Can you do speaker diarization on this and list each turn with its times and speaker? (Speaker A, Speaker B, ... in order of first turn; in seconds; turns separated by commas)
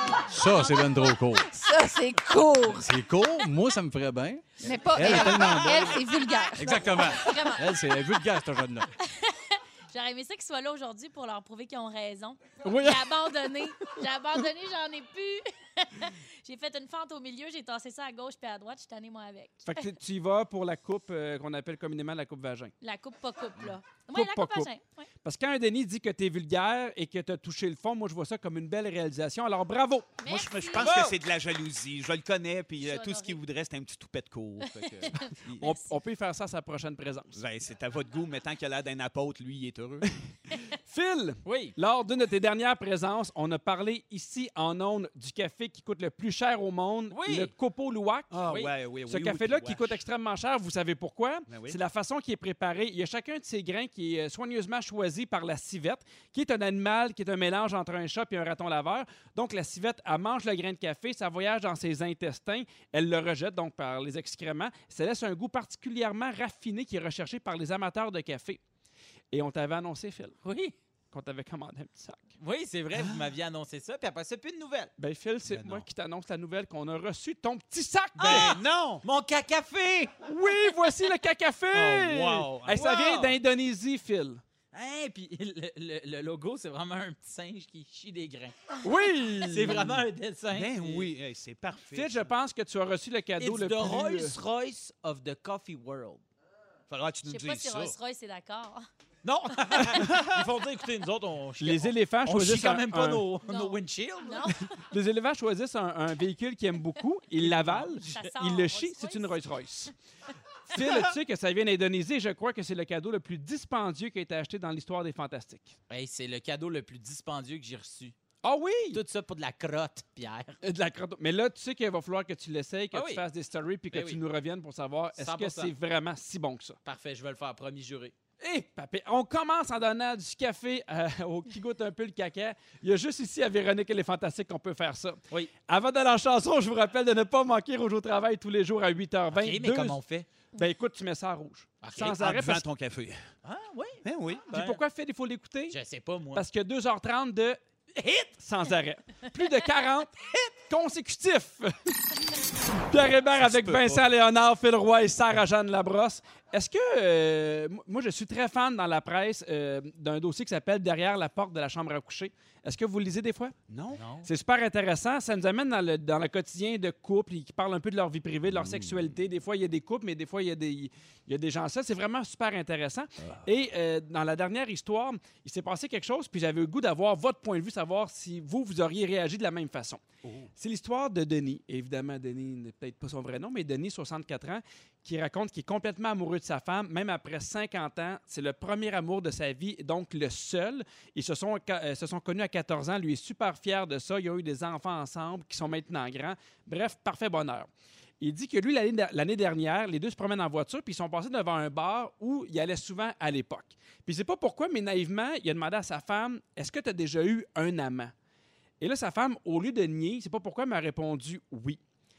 Speaker A: 0.3-1.5, Speaker B: 1.5-2.9, Speaker A: 2.7-6.0, Speaker B: 4.6-7.5, Speaker A: 6.5-8.9, Speaker C: 7.0-7.6, Speaker C: 9.0-19.9, Speaker D: 12.6-13.1, Speaker D: 19.7-22.7, Speaker C: 22.8-25.1, Speaker D: 24.1-24.7, Speaker D: 25.2-30.2, Speaker C: 30.2-30.9, Speaker E: 30.3-35.3, Speaker D: 30.8-31.1, Speaker C: 32.8-33.4, Speaker C: 34.6-35.8, Speaker D: 35.6-37.4, Speaker E: 37.4-40.1, Speaker D: 40.8-48.4, Speaker F: 41.5-41.8, Speaker F: 47.1-47.5, Speaker E: 48.3-50.0, Speaker F: 48.5-48.7, Speaker D: 49.1-68.6, Speaker E: 51.5-51.8, Speaker D: 69.3-70.4, Speaker F: 70.4-70.8, Speaker D: 71.1-72.3, Speaker F: 72.4-74.9, Speaker D: 75.0-78.6, Speaker E: 75.5-75.8, Speaker F: 78.2-80.2, Speaker E: 78.2-79.0, Speaker D: 80.2-84.4, Speaker F: 81.8-83.3, Speaker E: 81.9-83.2, Speaker F: 84.7-88.6, Speaker D: 88.8-90.0, Speaker F: 89.5-91.1, Speaker E: 90.5-92.3, Speaker D: 91.9-94.4, Speaker F: 93.4-96.2, Speaker E: 96.9-98.0, Speaker C: 97.3-98.9, Speaker F: 99.2-104.5, Speaker E: 100.0-100.3, Speaker D: 101.6-103.2, Speaker C: 103.5-104.8, Speaker D: 104.9-109.9, Speaker F: 107.4-108.0, Speaker C: 108.0-109.4, Speaker D: 110.7-115.7, Speaker F: 115.9-118.2, Speaker D: 118.4-119.0, Speaker F: 118.9-120.6, Speaker D: 120.6-126.8, Speaker F: 122.9-123.2, Speaker F: 123.9-124.2, Speaker F: 125.2-125.7, Speaker F: 126.8-128.2, Speaker D: 128.4-140.0, Speaker F: 139.3-140.3, Speaker D: 140.6-142.7, Speaker F: 141.8-142.2, Speaker E: 142.0-143.2, Speaker F: 143.4-144.8, Speaker E: 144.0-144.5, Speaker D: 144.5-145.8, Speaker F: 145.7-146.5, Speaker D: 146.3-147.6, Speaker F: 147.9-148.3, Speaker D: 148.4-163.6, Speaker E: 153.4-154.0, Speaker E: 163.7-164.0, Speaker F: 163.9-164.3, Speaker D: 164.2-180.0, Speaker E: 168.5-169.1, Speaker E: 173.2-173.6, Speaker E: 180.2-180.5, Speaker D: 180.6-208.1, Speaker D: 208.8-211.8